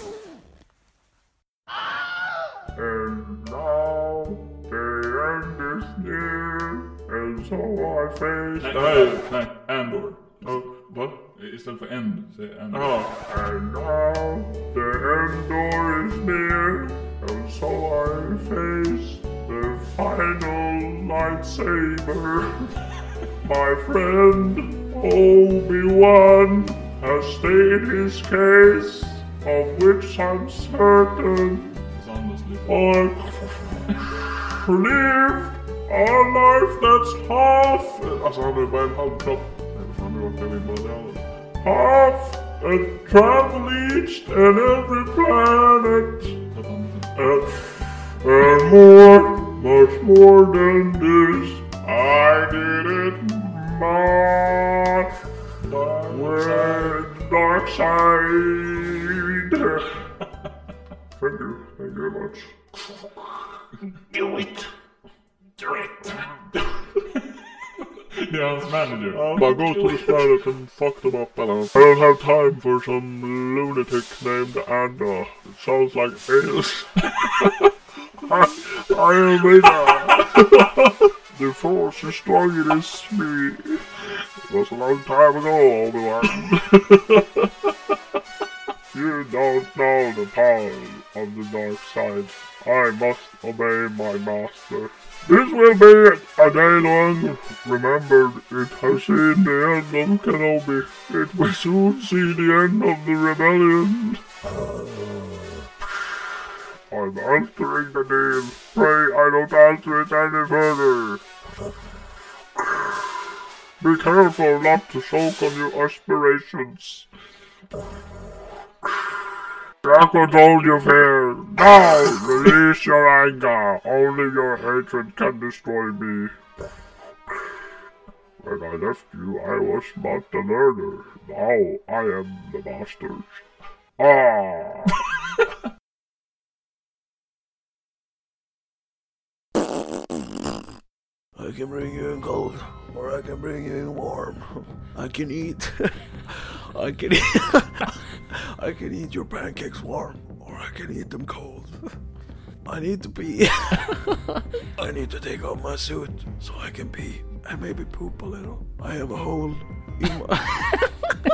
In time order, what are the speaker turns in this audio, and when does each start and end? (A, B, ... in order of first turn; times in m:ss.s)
0:02.8-0:09.2 A
0:08.6-0:13.2 B
0:12.7-0:22.8 A
0:23.4-0:31.8 A
0:31.9-0:33.0 B
0:32.7-0:40.6 A
0:39.8-0:41.2 B
0:41.6-0:46.4 A
0:46.5-0:47.3 B
0:47.2-0:55.2 A
0:55.6-0:57.0 B
0:56.1-1:00.0 A
1:01.2-1:02.5 A
1:04.2-1:04.5 A
1:08.1-1:10.5 B
1:09.1-1:17.7 A
1:18.2-1:23.8 A
1:24.5-1:27.5 A
1:28.9-1:44.2 A
1:46.9-1:51.2 A
1:52.6-1:53.0 A
1:53.8-1:57.1 A
1:59.8-2:06.4 A
2:07.3-2:07.5 A
2:08.4-2:13.4 A
2:14.0-2:15.0 A
2:21.4-2:31.9 C
2:32.6-2:41.1 C